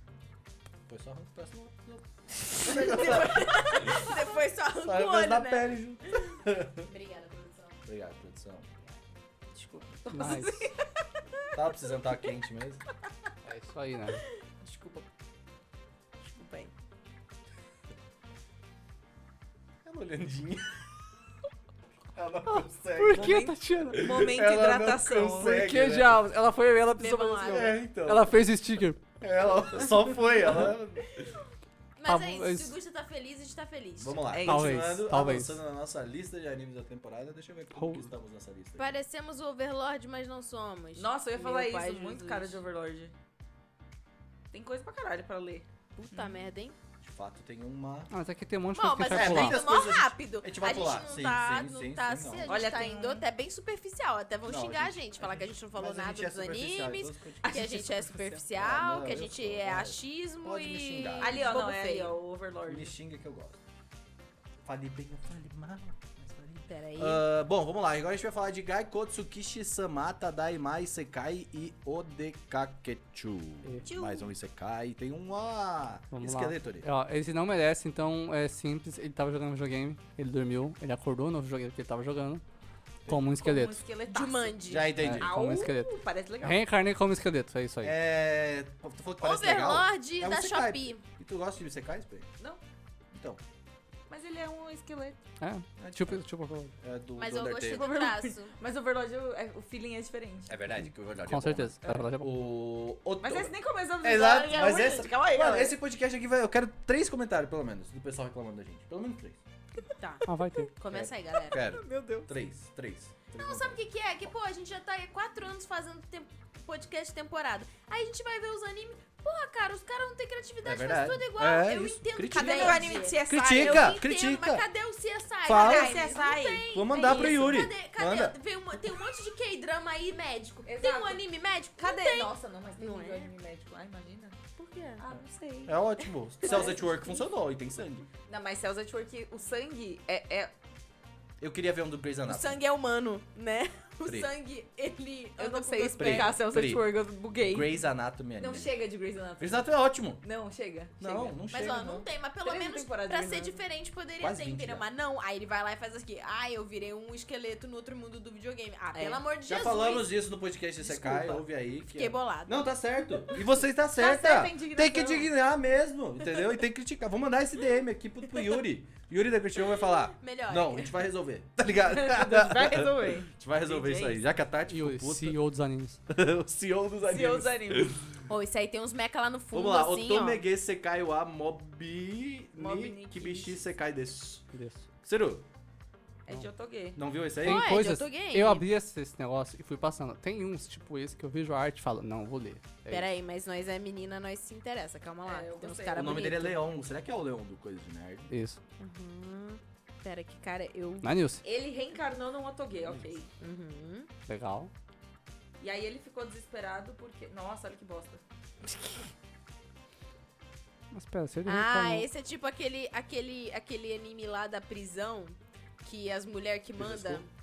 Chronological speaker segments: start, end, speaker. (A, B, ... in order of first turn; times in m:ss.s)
0:00.9-0:04.1 A
0:02.6-0:06.3 B
0:04.8-0:06.9 A
0:06.8-0:07.8 B
0:07.9-0:08.7 A
0:09.5-0:09.8 B
0:09.9-0:10.9 C
0:10.1-0:10.7 D
0:11.5-0:12.8 A
0:13.4-0:14.2 D
0:14.6-0:15.0 C
0:16.2-0:16.7 B
0:19.8-0:20.9 A
0:22.1-0:26.2 A
0:22.5-0:24.1 D
0:23.1-0:25.6 C
0:25.4-0:29.0 D
0:27.0-0:27.8 B
0:27.4-0:28.3 A
0:29.2-0:31.3 A
0:32.0-0:34.3 B
0:32.0-0:32.7 D
0:34.0-0:38.9 A
0:34.3-0:34.8 C
0:34.4-0:35.6 D
0:37.7-0:38.1 D
0:38.8-0:42.6 B
0:41.0-0:43.1 C
0:44.5-0:46.4 C
0:46.0-0:46.8 B
0:47.0-0:48.1 A
0:48.1-0:49.6 D
0:48.7-1:02.1 B
0:49.0-0:52.5 A
0:52.5-0:53.3 C
0:54.5-0:57.6 A
0:57.4-0:58.4 C
0:58.6-1:01.5 A
1:01.2-1:02.9 C
1:02.7-1:03.6 A
1:04.6-1:16.8 A
1:06.7-1:07.2 B
1:13.9-1:14.3 B
1:16.1-1:22.4 D
1:23.1-1:23.8 D
1:23.4-1:26.6 C
1:24.1-1:25.0 B
1:24.7-1:25.3 A
1:25.0-1:25.9 D
1:26.4-1:27.9 D
1:27.8-1:32.3 A
1:29.2-1:31.0 B
1:33.1-1:33.4 A
1:34.1-1:35.2 C
1:35.4-1:36.7 D
1:35.8-1:36.2 A
1:36.8-1:37.9 A
1:37.2-1:38.5 B
1:37.7-1:40.6 C
1:40.5-1:49.4 A
1:41.3-1:42.3 D
1:43.2-1:45.8 C
1:50.0-1:51.6 B
1:50.2-1:50.7 D
1:50.9-1:53.8 A
1:51.5-1:52.3 C
1:53.3-2:13.3 B
2:00.6-2:04.6 A
2:02.3-2:04.0 C
2:05.4-2:06.0 A
2:05.5-2:07.5 C
2:06.7-2:08.3 A
2:10.7-2:11.2 C
2:11.8-2:14.4 C
2:14.6-2:15.0 B
2:15.0-2:15.9 C
2:15.7-2:18.1 A
2:16.4-2:17.2 C
2:16.4-2:16.7 B
2:18.3-2:20.5 C
2:21.4-2:22.6 A
2:22.3-2:26.4 B
2:25.4-2:27.8 C
2:26.0-2:26.9 A
2:27.4-2:28.7 A
2:28.4-2:29.7 C
2:29.4-2:30.2 A
2:30.2-2:31.4 C
2:31.0-2:32.0 A
2:31.5-2:40.2 B
2:32.4-2:33.6 C
2:34.2-2:34.8 A
2:38.9-2:39.2 C
2:39.5-2:55.4 A
2:40.9-2:42.7 B
2:41.0-2:41.3 C
2:44.0-2:45.3 C
2:50.1-2:50.9 B
2:51.9-2:54.2 C
2:54.7-2:56.0 D
2:56.1-2:58.0 A
2:57.0-2:58.0 C
2:58.3-3:00.4 B
2:59.5-3:04.4 A
3:02.6-3:03.6 C
3:04.5-3:04.8 D
3:05.0-3:05.4 A
3:06.3-3:07.0 C
3:07.0-3:07.8 A
3:07.4-3:13.1 D
3:07.4-3:08.6 B
3:12.9-3:16.6 B
3:15.3-3:16.4 C
3:15.9-3:18.3 A
3:18.3-3:18.6 D
3:18.8-3:21.1 B
3:21.0-3:21.4 D
3:21.4-3:23.3 C
3:23.4-3:24.1 B
3:24.3-3:24.7 D
3:25.6-3:28.2 C
3:30.9-3:32.1 D
3:31.4-3:37.3 B
3:36.8-3:37.2 A